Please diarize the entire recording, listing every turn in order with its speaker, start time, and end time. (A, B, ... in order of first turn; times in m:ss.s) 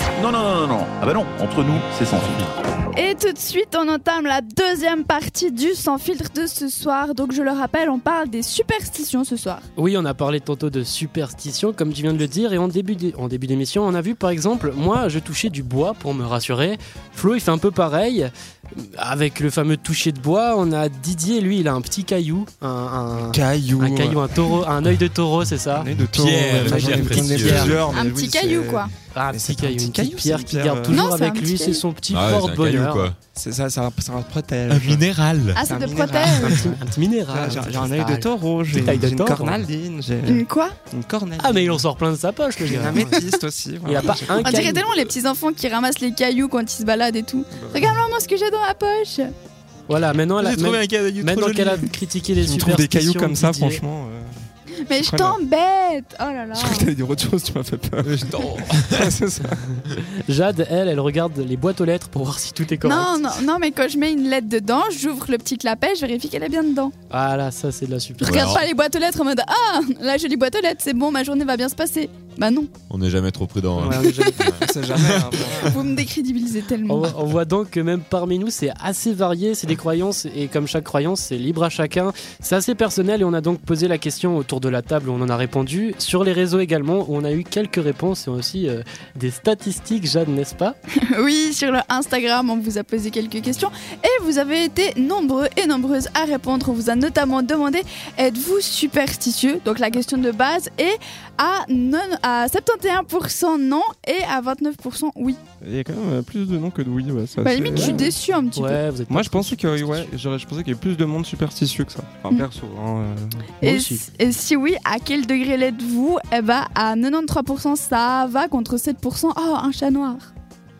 0:00.2-0:02.5 A
0:02.9-0:09.6 B
0:09.8-0:25.9 C
0:23.3-0:24.2 D
0:25.7-0:31.0 D
0:26.1-0:27.8 E
0:26.5-0:27.8 C
0:27.9-0:28.9 B
0:29.1-0:33.1 C
0:30.9-0:31.8 B
0:32.1-0:33.2 E
0:33.3-0:41.8 D
0:34.7-0:35.6 E
0:35.5-0:36.6 B
0:36.3-0:39.6 C
0:40.2-0:40.8 B
0:41.4-0:43.2 C
0:42.6-0:44.7 D
0:43.8-0:44.9 C
0:44.3-0:49.3 B
0:47.5-0:47.9 D
0:49.9-0:53.8 C
0:50.4-0:51.9 E
0:52.4-0:54.3 D
0:54.9-0:56.9 B
0:55.0-0:55.4 D
0:56.5-0:59.6 D
0:58.0-0:59.1 E
1:00.2-1:03.1 C
1:02.8-1:06.9 B
1:07.1-1:08.6 C
1:08.2-1:12.7 B
1:08.2-1:08.6 E
1:12.9-1:15.2 E
1:13.8-1:14.5 C
1:14.6-1:15.8 D
1:15.6-1:17.1 B
1:16.8-1:30.8 C
1:31.1-1:45.4 B
1:45.6-1:48.1 D
1:47.4-1:48.8 B
1:47.7-1:50.1 C
1:49.1-1:53.4 D
1:53.6-2:00.3 B
1:53.6-1:54.0 C